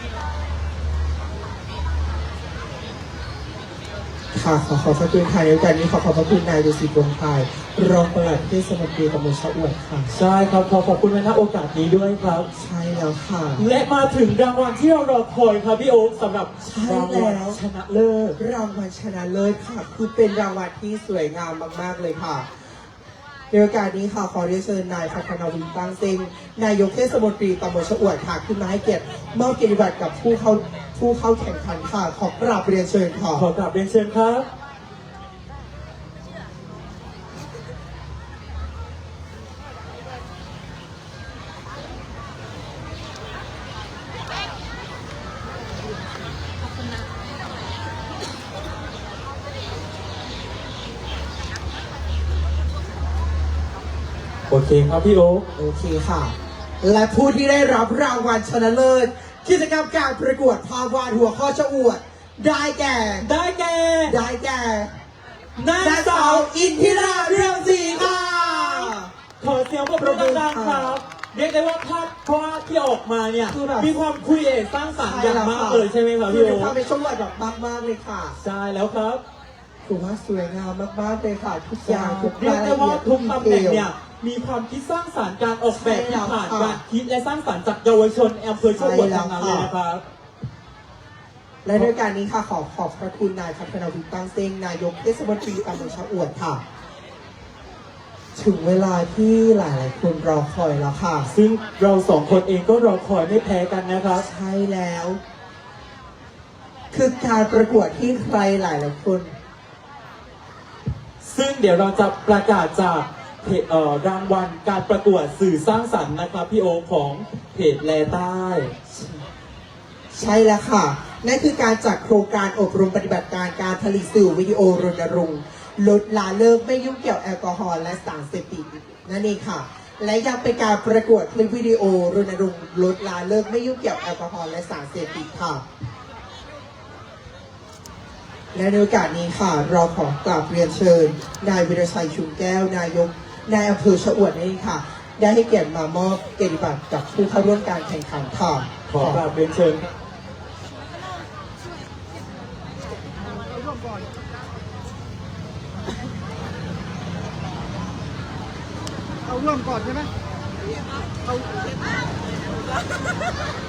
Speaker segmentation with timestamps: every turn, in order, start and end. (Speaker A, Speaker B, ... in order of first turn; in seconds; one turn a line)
Speaker A: 4.3-10.1
Speaker B: 10.1-12.5
Speaker A: 12.5-13.6
Speaker B: 13.6-18.4
Speaker A: 16.6-17.6
Speaker A: 18.4-22.5
Speaker A: 23.5-33.5
Speaker B: 33.3-34.5
Speaker B: 54.5-55.5
Speaker A: 55.5-63.3
Speaker B: 63.2-64.2
Speaker A: 64.1-64.9
Speaker B: 65.5-76.7
Speaker A: 65.8-69.1
Speaker A: 70.0-71.0
Speaker A: 73.5-74.0
Speaker A: 75.0-78.4
Speaker B: 78.4-79.2
Speaker A: 79.8-83.9
Speaker B: 81.8-90.0
Speaker A: 85.7-86.8
Speaker A: 88.8-89.7
Speaker A: 91.6-96.6
Speaker A: 98.3-101.3
Speaker B: 101.3-104.2
Speaker A: 104.1-105.2
Speaker A: 106.9-109.3
Speaker B: 111.2-118.7
Speaker A: 118.9-119.2
Speaker A: 120.1-135.6
Speaker A: 138.5-149.2
Speaker B: 148.9-149.8
Speaker C: 153.2-154.1
Speaker C: 159.2-160.1
Speaker C: 161.2-161.7